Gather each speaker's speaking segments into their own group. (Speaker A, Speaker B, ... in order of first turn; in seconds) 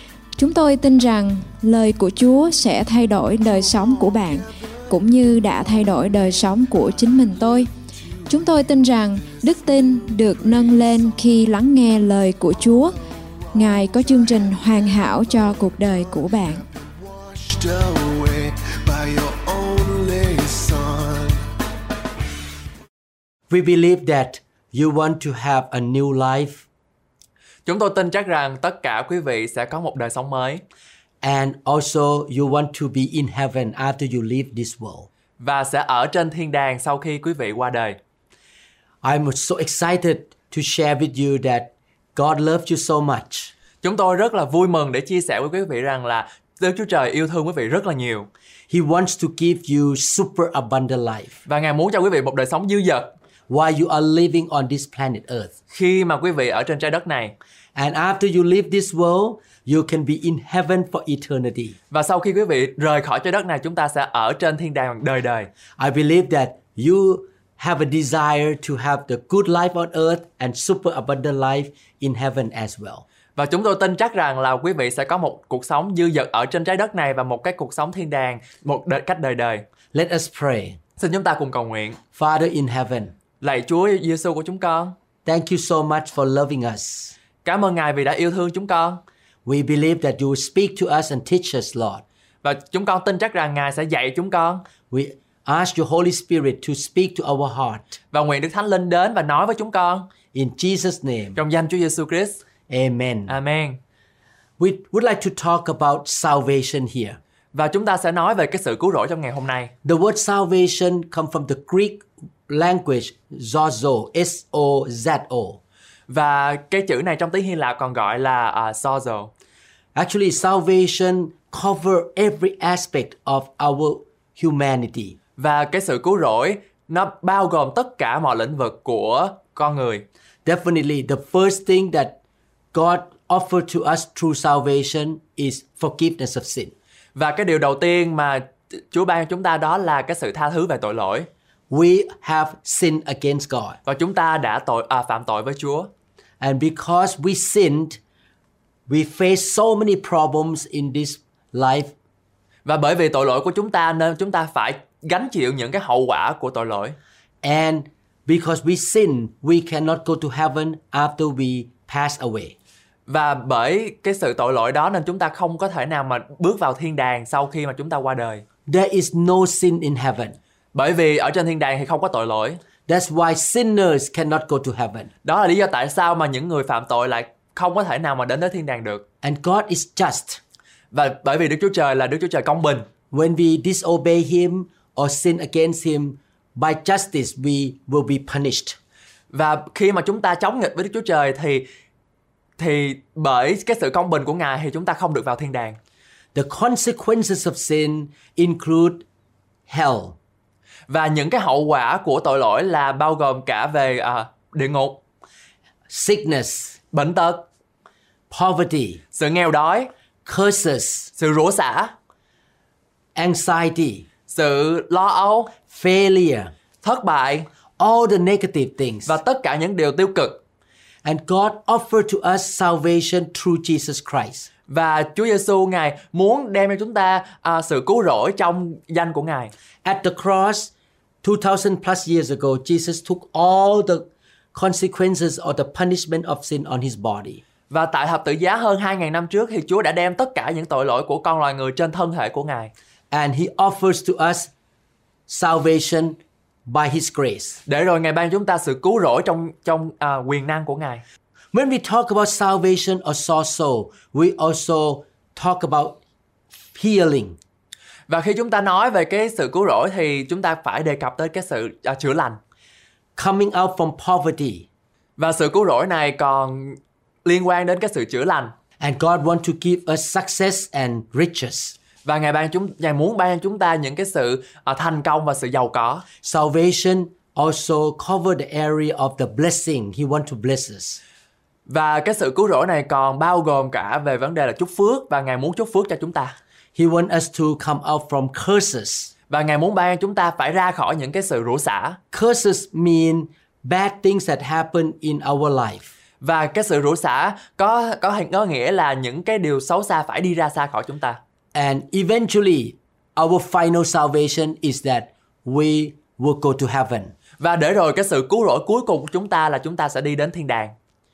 Speaker A: 0.4-7.7, 8.3-12.9, 13.5-16.6
Speaker B: 3.6-4.5, 5.2-7.5, 9.2-11.1, 13.5-21.4
Speaker C: 23.5-26.6, 31.2-35.1, 39.0-43.5, 48.7-51.4, 53.5-55.5, 57.7-61.8, 65.8-73.0, 79.9-80.8, 82.1-83.1, 85.2-87.2, 89.4-92.0, 94.9-98.0, 100.3-101.4, 102.7-103.3, 104.6-107.2, 109.8-115.6, 119.9-125.2, 130.4-132.2, 132.7-136.7, 141.7-143.8, 146.4-148.0, 148.9-151.9, 157.4-162.5, 168.7-170.4, 172.9-175.1, 179.2-180.4, 183.1-188.8, 196.3-199.0, 199.7-200.2, 205.9-206.7, 208.3-209.0, 210.2-211.1, 213.2-214.1, 215.7-216.5, 217.8-219.2, 221.0-224.5, 229.8-230.7, 231.2-237.4, 243.1-244.5, 245.3-247.6, 251.5-256.0, 256.7-257.4, 263.2-264.6, 268.8-271.7, 276.2-281.0, 286.7-289.1, 292.1-295.9, 301.5-307.1
Speaker D: 27.6-30.6, 35.4-38.0, 43.8-48.3, 51.5-53.1, 55.7-57.3, 61.9-65.5, 73.3-79.6, 81.0-82.0, 83.4-84.9, 87.4-89.0, 92.4-94.6, 98.1-100.0, 101.3-102.4, 103.3-103.8, 107.5-109.7, 116.1-119.3, 125.4-130.0, 137.1-141.3, 143.8-145.9, 152.6-157.0, 163.1-168.4, 170.7-172.6, 175.2-179.0, 180.9-182.8, 189.3-191.7, 192.6-195.8, 200.9-205.0, 206.9-207.4, 209.1-209.9, 211.2-211.9, 214.3-215.5, 216.8-217.5, 219.1-220.4, 224.7-229.5, 237.7-242.7, 247.7-251.0, 258.1-262.4, 265.2-268.5, 272.0-276.0, 281.7-286.4, 289.3-292.0, 296.2-301.2, 307.4-310.7